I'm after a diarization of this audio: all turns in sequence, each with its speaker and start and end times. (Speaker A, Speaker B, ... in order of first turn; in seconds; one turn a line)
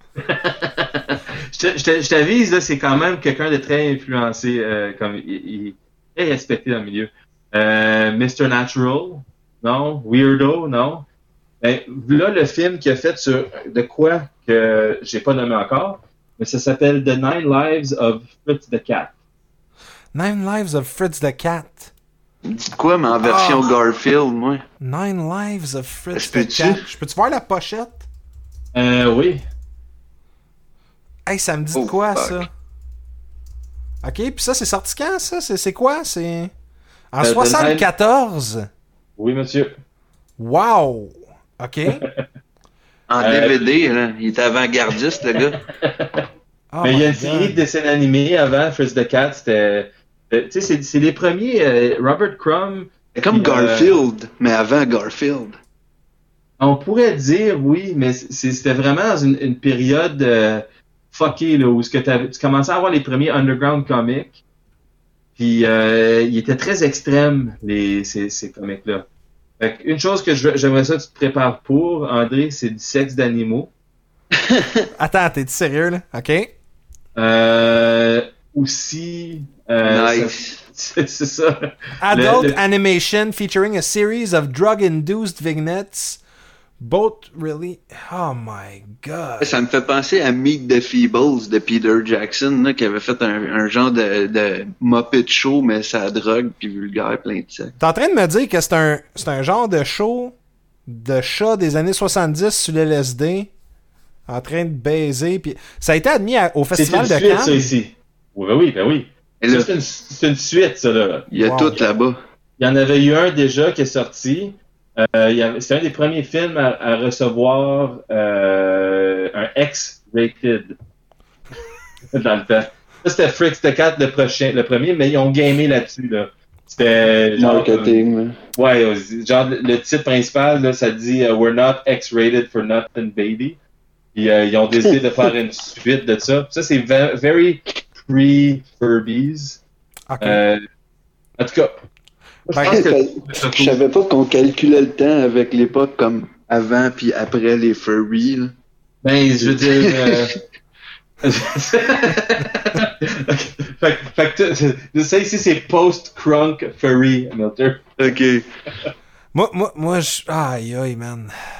Speaker A: 0.2-11.1
Speaker A: 11.6-19.1
Speaker B: 20.1-21.9
Speaker C: 22.4-24.6
Speaker B: 23.2-23.7
Speaker B: 24.8-28.1
Speaker C: 26.1-26.9
Speaker A: 28.7-29.4
Speaker B: 31.2-32.5
Speaker C: 31.7-32.4
Speaker B: 34.0-36.5
Speaker B: 37.1-38.7
Speaker A: 37.2-37.8
Speaker A: 39.2-39.7
Speaker B: 40.4-42.0
Speaker A: 41.9-42.2
Speaker C: 43.1-45.6
Speaker A: 43.2-43.7
Speaker A: 45.7-46.2
Speaker B: 46.7-47.6
Speaker A: 46.8-54.0
Speaker C: 53.1-55.6
Speaker A: 56.6-64.4
Speaker A: 65.4-69.0
Speaker A: 69.6-73.7
Speaker C: 74.3-74.8
Speaker B: 75.0-76.5
Speaker A: 77.1-82.6
Speaker C: 79.8-80.6
Speaker B: 82.0-86.2
Speaker B: 86.8-89.6
Speaker C: 89.4-97.8
Speaker B: 97.8-100.3
Speaker B: 100.9-103.5
Speaker B: 104.3-107.7
Speaker A: 106.8-111.3
Speaker C: 109.4-109.7
Speaker C: 111.3-112.2
Speaker B: 111.4-111.8
Speaker A: 112.6-120.7
Speaker A: 122.1-128.0
Speaker C: 127.4-128.4
Speaker A: 128.5-133.6
Speaker A: 134.1-139.6
Speaker B: 140.1-140.4
Speaker A: 140.2-140.6
Speaker A: 141.4-141.8
Speaker A: 142.5-143.8
Speaker B: 142.5-142.8
Speaker C: 142.6-148.5
Speaker A: 149.0-150.4
Speaker C: 149.4-150.3
Speaker A: 151.2-157.9
Speaker C: 158.0-158.4
Speaker B: 159.3-161.3